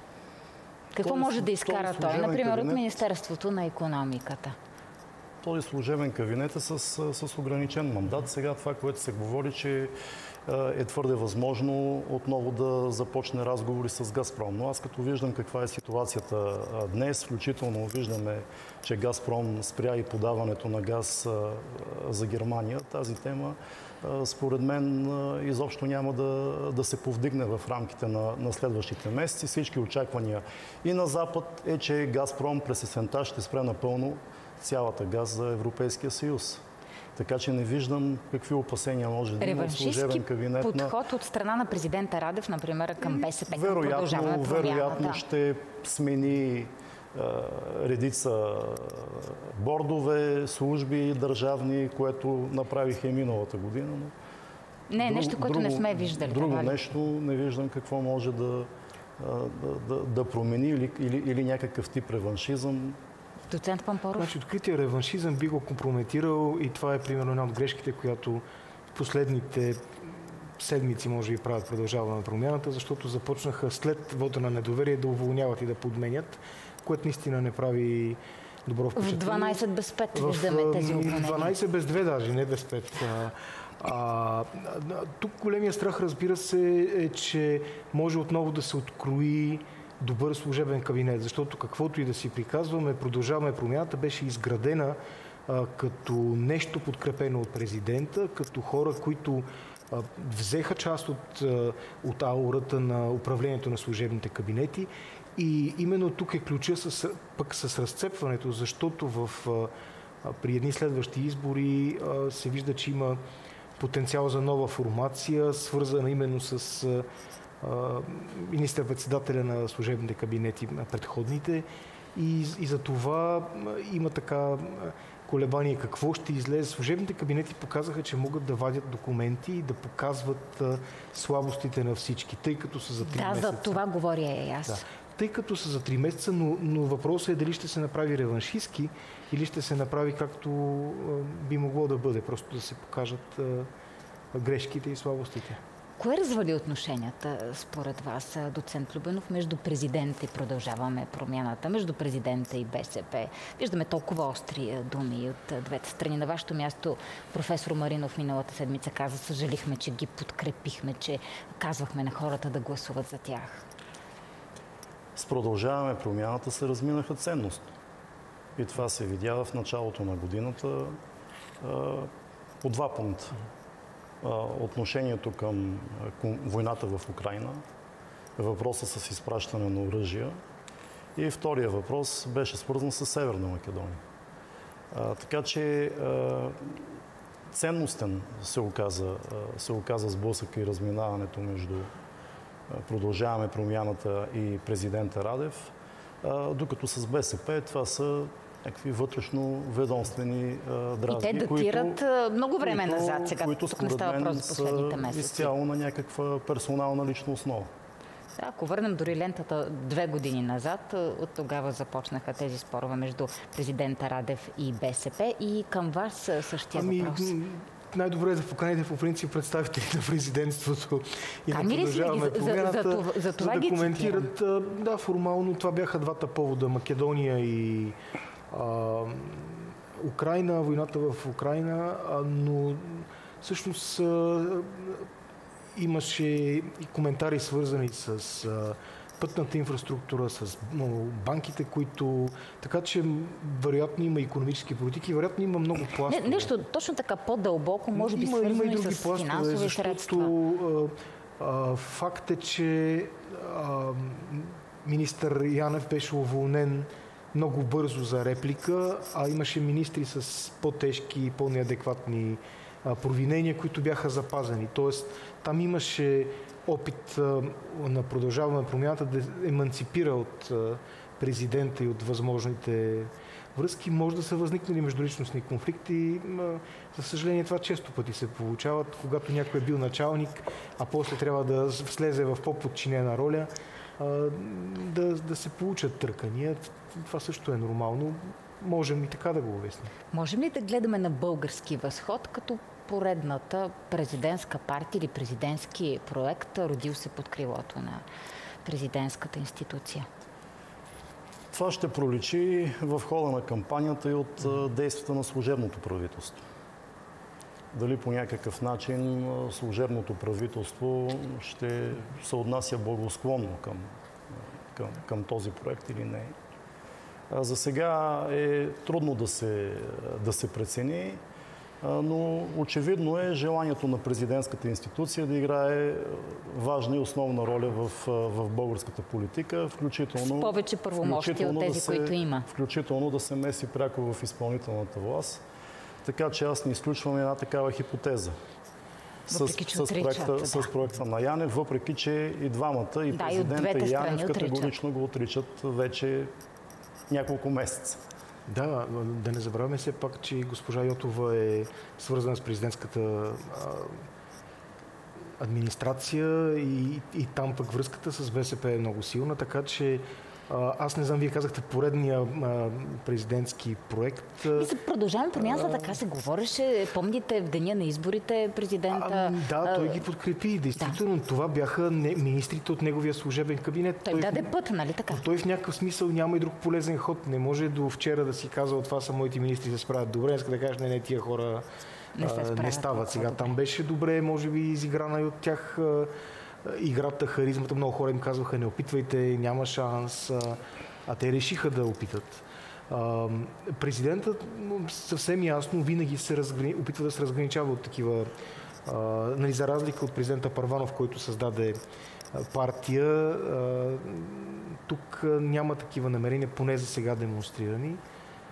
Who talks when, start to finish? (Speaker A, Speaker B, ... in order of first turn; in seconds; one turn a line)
Speaker A: 0.9-4.6
Speaker B: 1.0-3.0
Speaker B: 5.4-9.9
Speaker B: 10.5-36.6
Speaker B: 37.2-40.9
Speaker A: 39.4-45.2
Speaker B: 43.1-54.1
Speaker A: 54.9-56.8
Speaker B: 55.0-63.0
Speaker A: 63.5-64.3
Speaker C: 64.2-79.6
Speaker A: 79.0-81.5
Speaker C: 80.1-109.7
Speaker C: 110.2-113.2
Speaker C: 113.8-117.1
Speaker C: 117.6-133.8
Speaker A: 133.0-134.8
Speaker C: 134.7-143.7
Speaker C: 144.3-145.6
Speaker A: 146.0-163.7
Speaker B: 165.2-167.7
Speaker B: 168.6-171.0
Speaker B: 171.6-172.1
Speaker B: 172.6-173.4
Speaker B: 174.2-177.6
Speaker B: 178.4-180.4
Speaker B: 181.2-184.0
Speaker B: 184.9-186.9
Speaker B: 187.5-191.9
Speaker B: 192.7-202.0
Speaker A: 201.1-205.5
Speaker B: 202.6-207.7
Speaker A: 208.4-217.4
Speaker C: 216.7-228.0
Speaker A: 221.5-224.3
Speaker C: 228.5-235.1
Speaker C: 235.8-246.5
Speaker A: 246.1-250.3
Speaker C: 247.9-289.9
Speaker A: 290.1-298.0
Speaker A: 298.6-300.1
Speaker B: 301.5-306.4
Speaker B: 307.7-316.3
Speaker B: 317.3-321.2
Speaker B: 321.8-335.4
Speaker A: 330.2-332.5
Speaker B: 336.0-338.4
Speaker B: 339.3-346.3
Speaker A: 339.3-340.7
Speaker A: 343.1-344.8
Speaker B: 347.1-348.0
Speaker C: 348.5-354.0
Speaker C: 355.4-364.7
Speaker A: 364.6-370.0
Speaker C: 365.4-366.0
Speaker C: 368.9-374.5
Speaker A: 374.1-375.2
Speaker C: 375.1-381.7
Speaker A: 382.2-383.6
Speaker C: 382.2-386.1
Speaker C: 386.6-398.3
Speaker C: 398.9-401.8
Speaker C: 402.3-408.0